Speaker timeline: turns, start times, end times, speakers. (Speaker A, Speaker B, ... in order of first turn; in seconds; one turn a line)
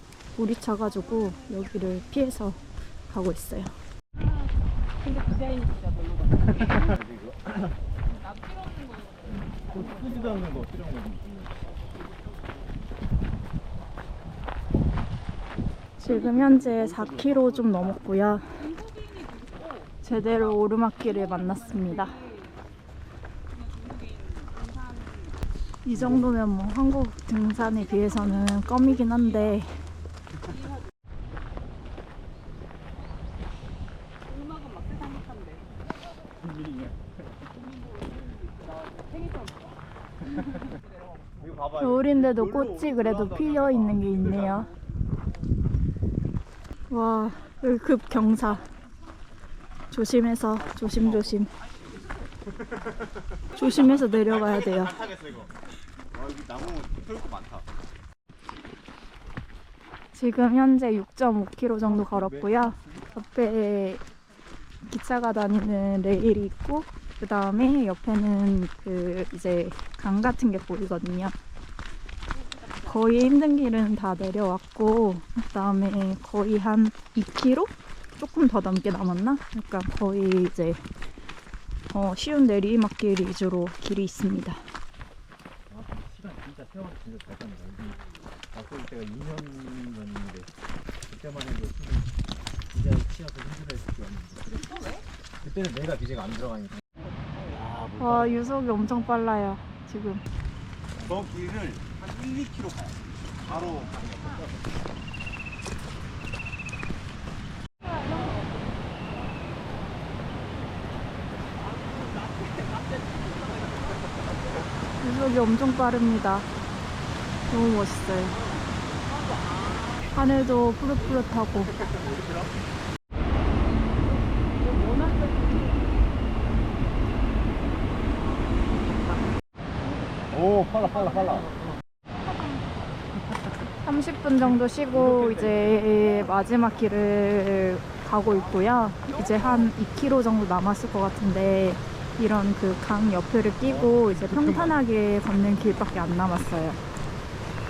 Speaker A: 0.4-3.8
Speaker B: 5.0-6.3
Speaker C: 6.5-7.7
Speaker B: 8.2-9.5
Speaker C: 9.3-11.7
Speaker A: 16.0-18.7
Speaker B: 18.9-19.6
Speaker A: 20.0-22.2
Speaker B: 23.6-25.2
Speaker A: 25.8-29.7
Speaker C: 25.9-26.3
Speaker B: 34.6-35.7
Speaker C: 36.4-37.0
Speaker C: 41.4-44.7
Speaker A: 41.8-44.7
Speaker A: 46.9-48.6
Speaker A: 49.9-51.5
Speaker C: 50.7-51.4
Speaker C: 52.6-55.6
Speaker A: 53.5-55.0
Speaker C: 56.1-57.6
Speaker A: 60.1-64.0
Speaker C: 61.9-63.0
Speaker A: 64.8-71.3
Speaker A: 72.8-80.8
Speaker A: 81.9-84.6
Speaker C: 85.7-88.0
Speaker C: 88.5-90.5
Speaker C: 91.0-92.1
Speaker C: 92.7-94.5
Speaker C: 95.4-96.8
Speaker C: 97.5-98.5
Speaker A: 98.0-100.2
Speaker C: 101.0-104.5
Speaker A: 115.0-116.5
Speaker A: 117.5-118.3
Speaker A: 120.1-121.8
Speaker C: 121.8-122.5
Speaker C: 130.3-131.5
Speaker A: 133.8-146.8
Speaker C: 134.9-135.8
Speaker C: 143.6-144.8